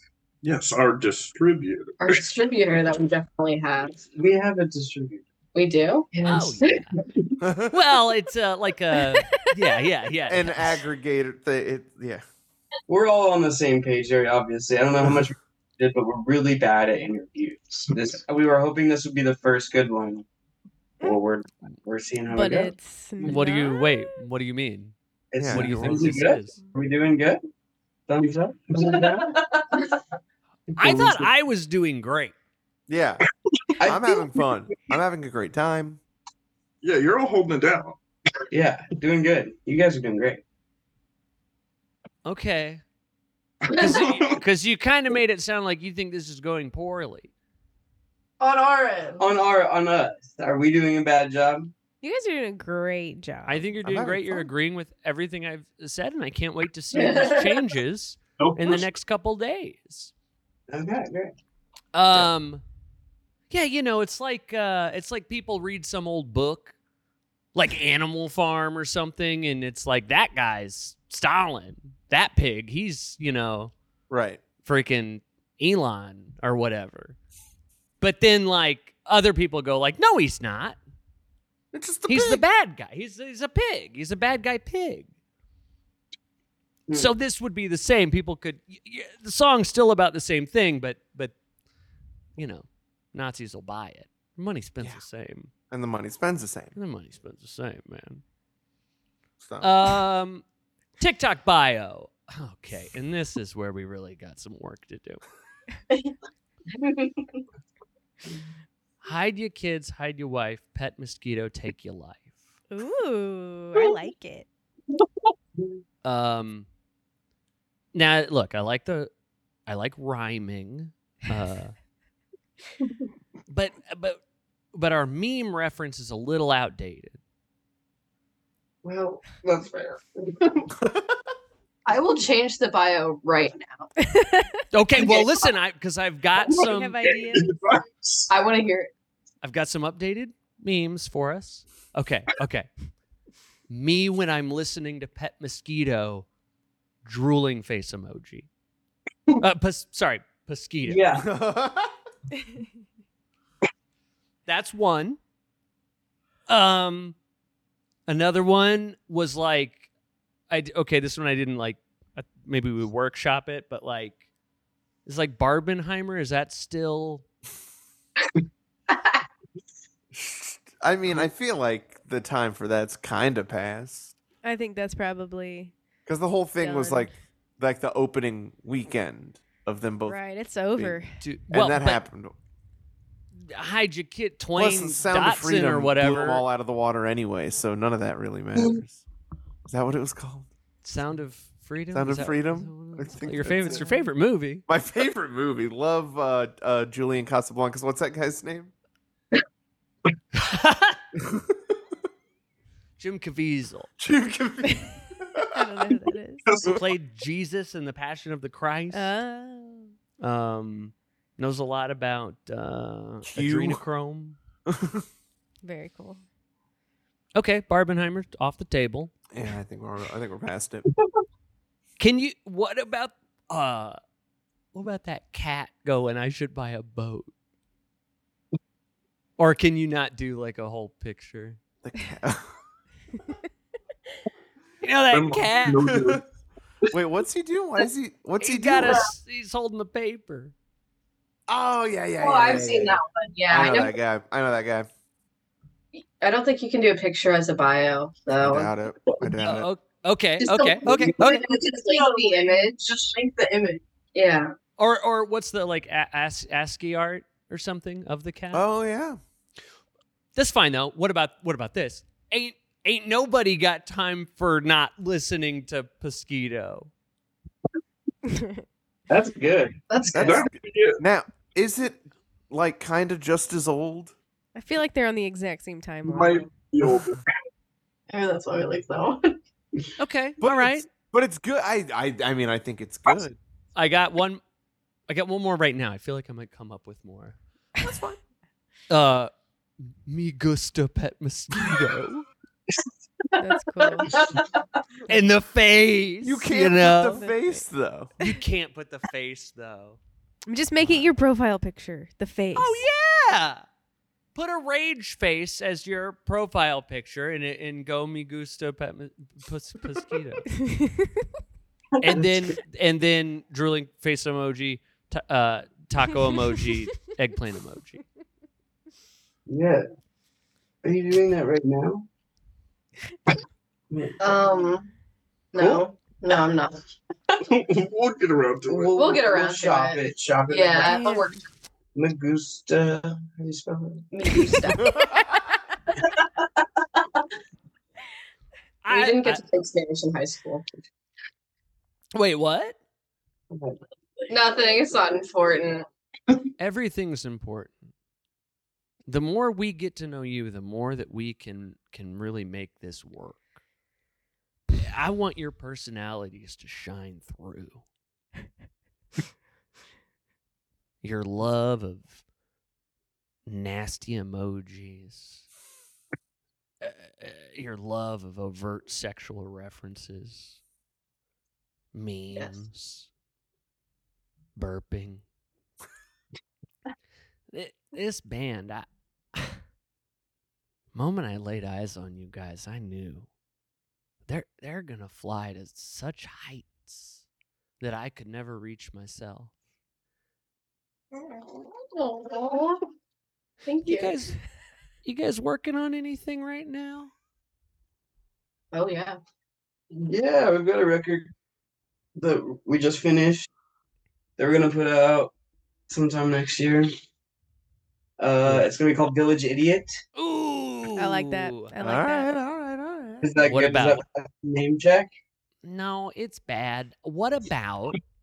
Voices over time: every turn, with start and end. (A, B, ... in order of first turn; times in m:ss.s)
0:00.4-0:02.3 A
0:02.0-0:04.0 B
0:04.0-0:05.2 C
0:05.6-0:06.7 B
0:06.2-0:07.0 D
0:07.4-0:07.8 E
0:07.7-0:10.8 D
0:10.3-0:12.2 E
0:12.9-0:20.3 C
0:21.0-0:22.8 C
0:22.3-0:24.2 F
0:23.2-0:25.0 D
0:25.3-0:27.4 C
0:25.4-0:26.2 E
0:25.5-0:26.6 D
0:28.1-0:29.4 C
0:30.8-0:31.3 C
0:30.8-0:32.3 D
0:32.9-0:33.2 E
0:33.8-0:34.2 C
0:33.8-0:36.0 E
0:36.8-0:38.0 A
0:38.5-0:40.4 C
0:42.2-0:42.8 D
0:43.7-0:44.4 A
0:43.7-0:47.3 D
0:48.4-0:49.3 G
0:49.2-0:51.7 C
0:52.0-0:53.7 F
0:53.5-1:00.1 D
0:53.8-0:54.5 E
0:57.0-0:57.4 B
0:58.4-0:58.9 A
1:00.7-1:01.3 C
1:01.9-1:02.6 D
1:03.5-1:06.8 D
1:07.6-1:13.7 D
1:14.1-1:14.4 E
1:14.6-1:17.2 D
1:18.0-1:20.8 D
1:21.7-1:22.4 E
1:22.1-1:25.1 D
1:26.9-1:27.1 C
1:26.9-1:31.4 D
1:32.4-1:35.5 D
1:35.7-1:36.8 E
1:36.8-1:38.2 D
1:39.4-1:40.0 E
1:39.6-1:40.4 D
1:41.0-1:45.2 D
1:49.0-1:52.3 D
1:52.7-1:54.5 F
1:56.0-1:56.7 D
1:57.9-1:59.1 D
1:59.7-2:01.8 D
2:03.5-2:04.2 D
2:04.7-2:07.2 D
2:08.8-2:10.4 C
2:11.9-2:13.9 B
2:14.0-2:14.6 F
2:14.7-2:17.0 D
2:16.5-2:17.6 F
2:17.0-2:18.3 A
2:18.3-2:18.9 B
2:19.4-2:22.7 D
2:23.7-2:26.3 D
2:27.0-2:28.5 D
2:29.4-2:31.0 D
2:30.8-2:31.2 C
2:31.1-2:31.9 E
2:34.5-2:35.2 D
2:36.5-2:37.2 D
2:38.1-2:39.9 D
2:40.5-2:44.2 D
2:45.1-2:47.2 D
2:50.1-2:54.2 E
2:54.4-2:55.7 F
2:56.1-3:00.2 E
2:56.6-2:57.2 F
3:00.1-3:01.2 F
3:00.8-3:02.4 E
3:01.2-3:02.0 D
3:03.4-3:06.5 D
3:04.6-3:09.0 E
3:09.7-3:10.5 E
3:10.8-3:14.6 D
3:11.9-3:13.9 E
3:13.7-3:14.1 F
3:14.7-3:18.7 E
3:20.3-3:21.0 D
3:21.2-3:21.6 E
3:23.0-3:23.9 D
3:24.0-3:25.8 E
3:25.4-3:26.5 F
3:26.5-3:26.8 A
3:26.6-3:29.1 D
3:28.9-3:29.9 F
3:30.2-3:34.4 D
3:33.2-3:33.8 E
3:34.7-3:35.0 E
3:35.6-3:36.2 F
3:37.4-3:39.1 D
3:39.3-3:40.9 E
3:42.0-3:44.0 D
3:44.7-3:47.3 D
3:49.4-3:51.6 D
3:51.8-3:52.6 E
3:54.8-3:55.9 D
3:55.1-3:56.2 A
3:55.8-3:56.2 E
3:56.9-3:59.1 E
3:58.4-4:00.5 D
4:01.5-4:03.0 E
4:02.2-4:03.9 B
4:03.5-4:04.9 E
4:06.2-4:08.7 B
4:08.4-4:09.7 E
4:09.4-4:11.3 D
4:10.4-4:13.1 B
4:11.0-4:13.8 G
4:14.2-4:14.5 B
4:14.8-4:18.7 D
4:18.5-4:19.2 E
4:20.4-4:26.9 D
4:28.3-4:28.6 F
4:29.1-4:29.8 C
4:29.9-4:30.4 B
4:30.1-4:34.2 E
4:30.2-4:31.0 A
4:34.6-4:36.5 F
4:36.0-4:37.2 A
4:38.1-4:39.4 G
4:40.0-4:40.9 D
4:40.4-4:43.4 E
4:43.8-4:44.4 D
4:45.1-4:47.4 D
4:48.9-4:49.3 D
4:49.8-4:52.3 D
4:53.4-4:54.2 F
4:55.1-4:57.3 D
4:56.2-4:58.1 E
4:57.1-4:57.6 F
4:58.2-5:00.0 D
5:00.5-5:02.9 F
5:00.8-5:01.1 E
5:02.6-5:03.6 D
5:04.4-5:10.5 D
5:10.6-5:11.1 F
5:12.0-5:12.5 C
5:12.0-5:18.0 D
5:19.5-5:19.8 C
5:20.8-5:22.1 C
5:23.9-5:24.4 C
5:24.2-5:24.9 B
5:25.5-5:26.8 B
5:25.6-5:25.9 C
5:27.4-5:29.0 A
5:28.7-5:31.1 C
5:29.0-5:31.4 B
5:30.8-5:31.3 F
5:32.0-5:34.1 C
5:34.1-5:34.9 B
5:34.8-5:35.4 E
5:38.8-5:39.4 D
5:38.9-5:40.6 B
5:42.2-5:42.8 D
5:43.5-5:44.3 C
5:44.3-5:45.9 B
5:46.6-5:47.8 D
5:49.1-5:53.4 D
5:54.7-5:57.8 D
6:01.0-6:02.2 D
6:03.5-6:05.4 D
6:06.8-6:10.6 D
6:11.9-6:13.1 D
6:14.6-6:15.2 D
6:17.5-6:19.6 D
6:20.9-6:23.3 D
6:24.3-6:27.2 D
6:27.8-6:29.5 D
6:31.2-6:32.8 B
6:33.7-6:34.1 B
6:33.9-6:34.4 D
6:35.0-6:37.1 D
6:38.7-6:39.2 B
6:39.9-6:41.3 C
6:42.2-6:43.5 C
6:44.4-6:45.3 C
6:45.9-6:46.9 C
6:48.2-6:50.0 C
6:50.2-6:51.7 D
6:51.0-6:52.3 F
6:51.8-6:53.4 E
6:53.2-6:55.1 C
6:53.4-6:54.0 D
6:55.6-6:58.0 D